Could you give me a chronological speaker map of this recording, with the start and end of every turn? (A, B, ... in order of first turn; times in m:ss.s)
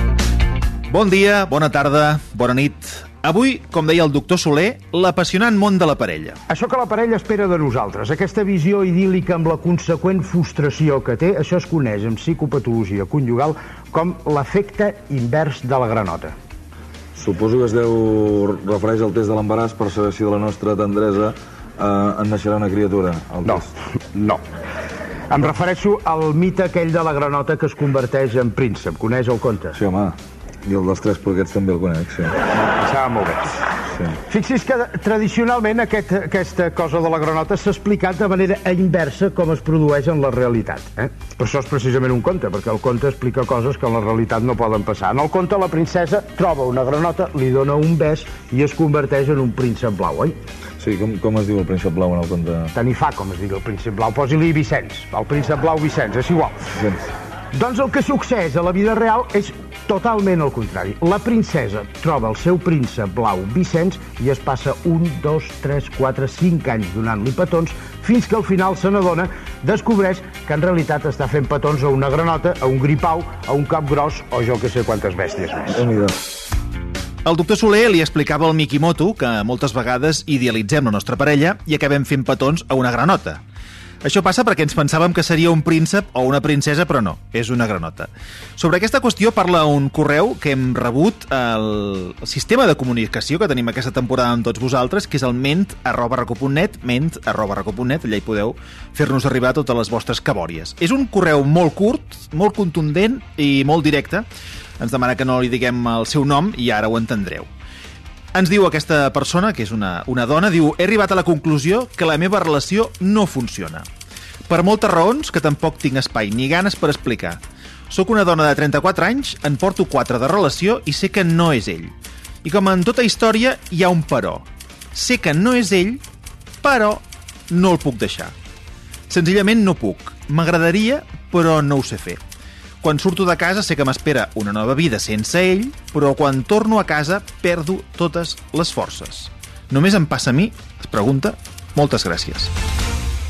0:00.9-0:06.4 A
0:06.5-0:16.3 B
0:17.2-0:23.6 C
0:23.4-0:24.4 B
0:25.3-0:29.8 B
0:29.8-0:32.4 C
0:32.8-0:33.5 B
0:34.3-0:50.4 B
0:50.8-0:52.7 C
0:52.7-0:56.7 B
0:56.8-0:57.0 C
0:57.5-1:15.8 B
1:15.8-1:16.1 C
1:17.2-1:23.4 A
1:24.0-1:44.2 A
1:44.8-1:47.5 A
1:48.3-1:53.8 A
1:54.5-2:01.9 A
2:02.4-2:06.0 A
2:06.6-2:08.3 A
2:09.1-2:12.2 A
2:12.8-2:22.5 A